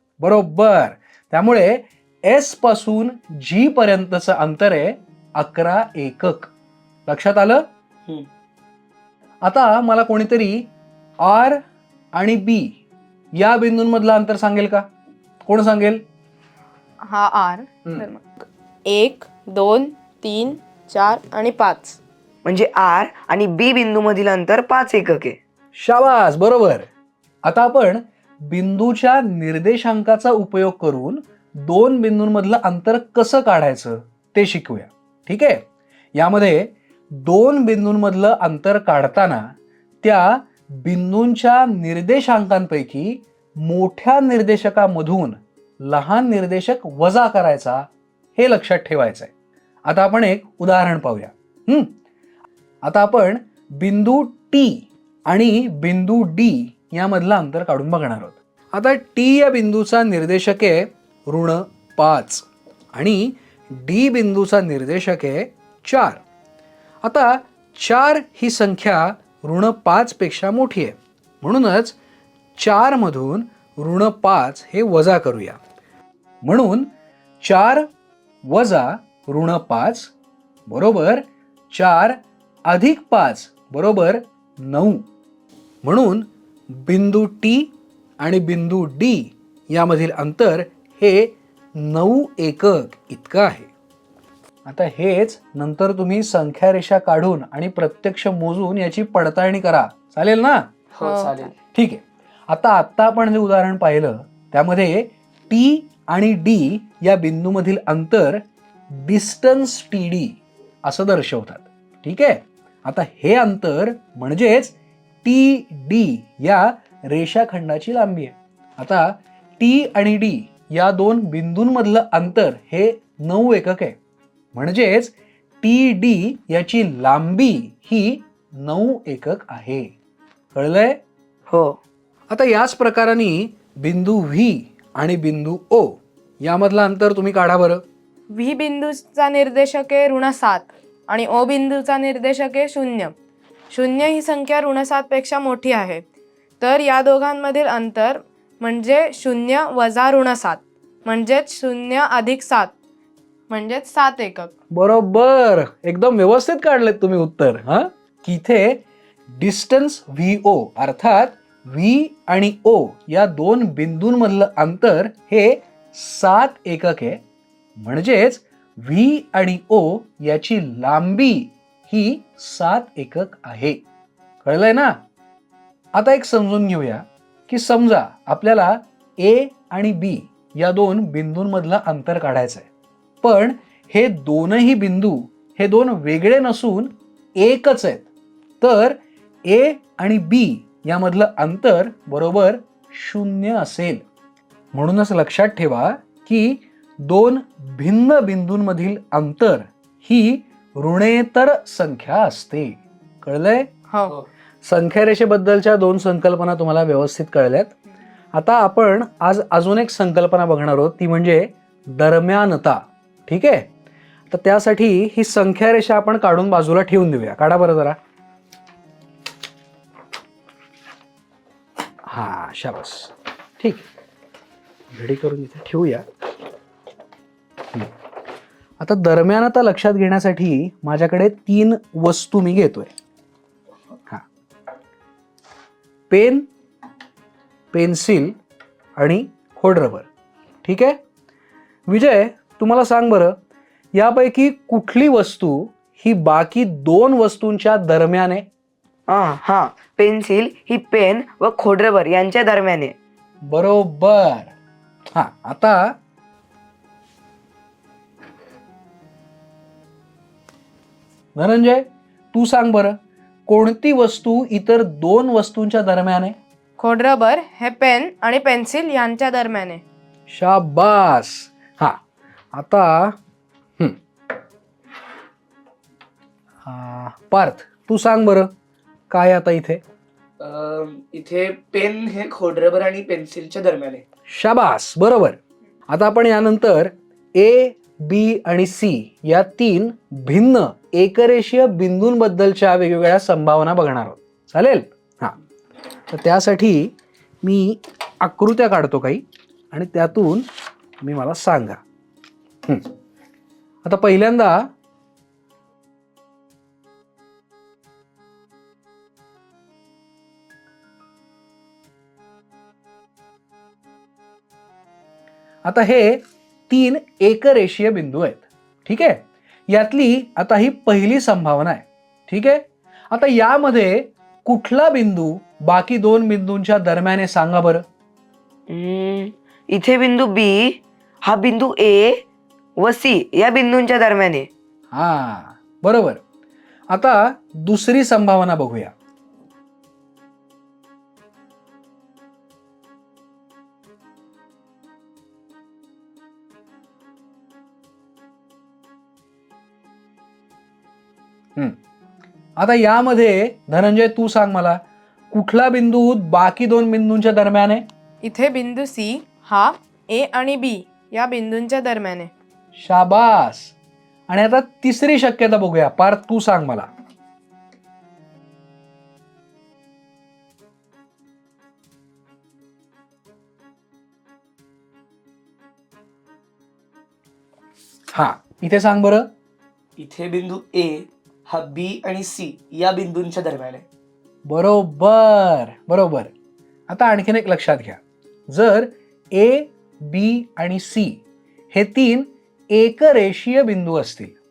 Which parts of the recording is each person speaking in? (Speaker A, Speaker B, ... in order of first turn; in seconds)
Speaker A: 0.2-6.5, 7.1-7.7, 9.4-10.7, 11.2-11.6, 12.2-12.8, 13.3-14.9, 15.5-16.0, 25.8-26.9, 27.4-35.6, 36.1-49.3, 49.9-51.9, 52.9-66.2, 67.0-72.0, 72.6-75.6, 76.4-76.9, 77.4-77.9, 78.5-80.1, 80.7-85.0, 85.8-93.7, 94.7-100.7, 101.7-124.0, 124.5-129.9, 130.6-131.0, 132.3-137.8, 154.7-167.2, 167.8-173.8, 174.4-175.0, 175.9-182.7, 183.2-188.1, 188.6-194.0, 194.7-203.7, 204.6-207.7, 208.3-213.7, 214.3-218.0, 222.1-223.9, 224.9-226.1, 228.8-232.9, 236.1-236.5, 237.7-238.4, 239.0-240.1, 240.6-241.0, 241.9-243.3, 243.9-248.5, 253.5-254.5, 255.2-255.9, 261.4-262.9, 263.5-266.4, 270.3-272.0, 272.5-273.2, 276.6-278.5, 279.1-279.8, 284.3-285.4, 285.9-295.4, 296.1-300.5, 301.0-301.8, 302.7-302.9, 303.8-304.7, 315.6-327.9, 334.9-336.2, 336.9-338.9, 352.6-357.9, 362.8-363.7, 364.3-366.9, 378.1-379.3, 384.5-386.3, 386.9-388.0, 388.5-391.2, 391.7-394.4
Speaker B: 17.0-22.0, 101.0-101.5, 138.3-143.2, 143.7-146.1, 146.6-152.7, 153.5-154.5, 203.9-204.2, 266.8-269.8, 358.2-362.3
Speaker C: 22.4-25.4, 131.5-131.8, 249.1-252.9, 328.7-332.2, 332.8-334.5
Speaker D: 100.9-101.5, 280.4-284.0, 380.0-383.9